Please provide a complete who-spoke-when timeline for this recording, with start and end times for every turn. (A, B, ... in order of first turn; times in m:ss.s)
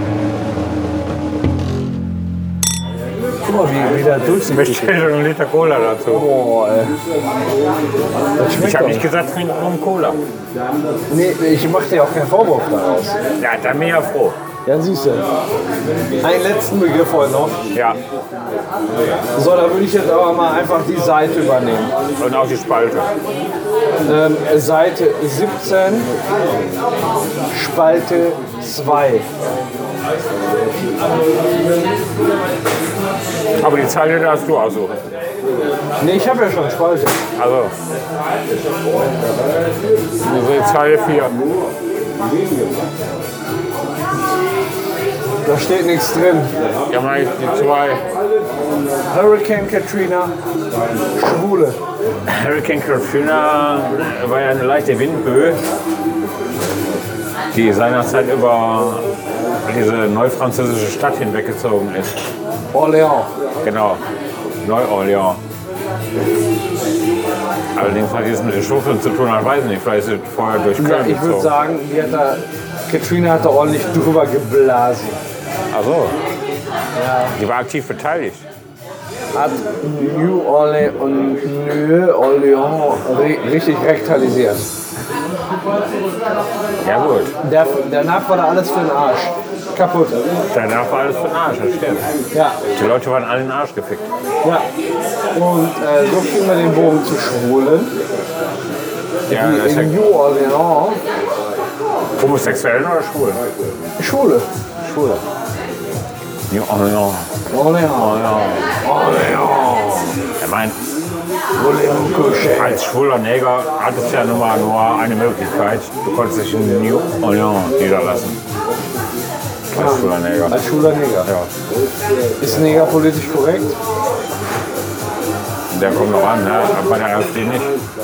0:03.4-0:05.1 A
0:04.4-0:06.2 B
0:06.1-0:07.0 A
0:08.4-0:09.1 A
0:08.5-0:10.2 B
0:11.1-0:13.2 A
0:13.4-0:14.4 B
0:14.6-0:15.3 A
0:16.2-0:17.6 A
0:17.7-0:18.0 B
0:19.3-0:21.9 A
0:22.2-0:23.1 B
0:24.0-0:26.1 A
0:27.5-0:29.3 A
0:33.6-0:35.0 B
0:36.0-0:37.2 A
0:37.4-0:37.7 B
0:40.2-0:41.4 B
0:45.5-0:46.5 A
0:46.9-0:48.0 B
0:49.1-0:50.4 A
0:51.2-0:51.8 A
0:52.3-0:55.6 B
0:57.5-0:59.1 B
0:59.6-1:02.3 B
1:02.7-1:03.3 A
1:03.6-1:04.0 B
1:04.6-1:05.4 B
1:07.8-1:11.5 B
1:10.8-1:15.2 A
1:15.7-1:16.2 B
1:17.0-1:17.4 A
1:17.3-1:18.4 B
1:19.3-1:24.7 A
1:26.8-1:27.3 B
1:27.4-1:30.2 A
1:30.5-1:32.1 B
1:32.3-1:32.6 A
1:32.7-1:34.1 B
1:35.3-1:37.9 A
1:39.3-1:41.0 A
1:39.3-1:40.0 B
1:42.2-1:43.4 B
1:44.0-1:44.5 A
1:44.8-1:45.2 B
1:46.5-1:47.3 B
1:47.5-1:48.2 A
1:47.9-1:48.7 B
1:48.8-1:50.2 A
1:50.4-1:50.8 B
1:51.6-1:52.8 A
1:52.4-1:58.4 B
1:59.7-2:00.6 B
1:59.7-2:01.3 A
2:01.2-2:01.5 B
2:02.4-2:03.8 A
2:05.7-2:07.7 B